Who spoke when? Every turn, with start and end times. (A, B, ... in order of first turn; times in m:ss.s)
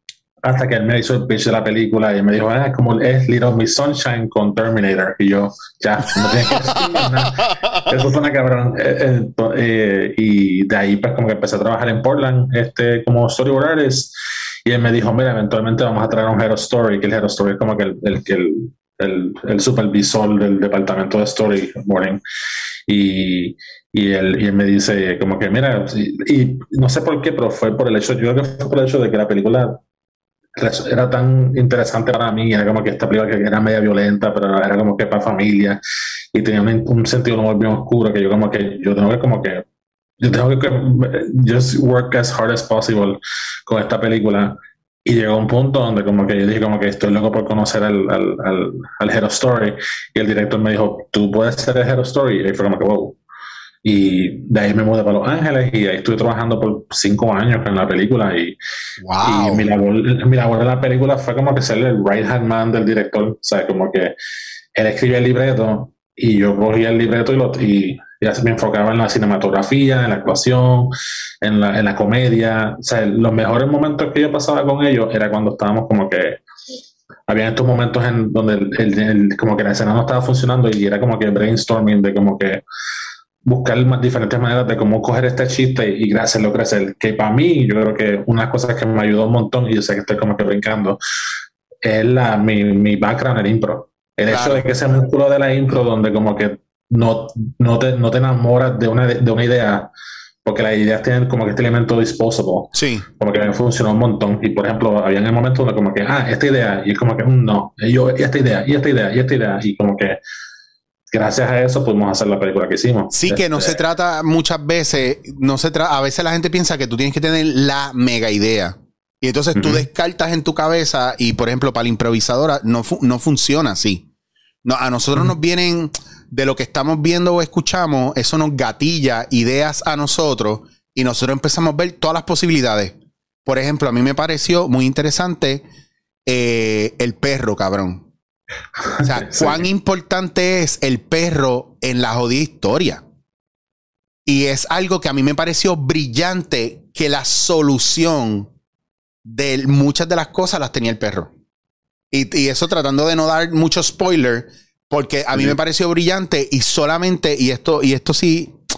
0:00.4-0:14.1 A
0:06.4-0:07.9 B
0:14.6-0:22.2 A
0:22.9-0:29.8 A
0:30.6-0:35.8 A
0:36.3-0:39.6 A
0:40.2-0:53.2 A
0:53.8-0:58.6 A
0:59.0-0:59.6 B
0:59.2-1:04.1 A
1:04.7-1:16.4 A
1:17.3-1:22.6 A
1:23.4-1:31.0 A
1:31.8-1:39.9 A
1:34.3-1:34.6 B
1:40.4-1:50.2 A
1:42.7-1:43.0 B
1:51.1-1:53.8 A
1:53.1-2:04.0 B
1:59.5-1:59.8 A
2:04.6-2:15.6 B
2:16.3-2:18.0 B
2:18.8-2:19.6 A
2:19.0-2:23.0 B
2:24.2-2:28.5 B
2:29.2-2:31.3 B
2:32.1-2:38.6 B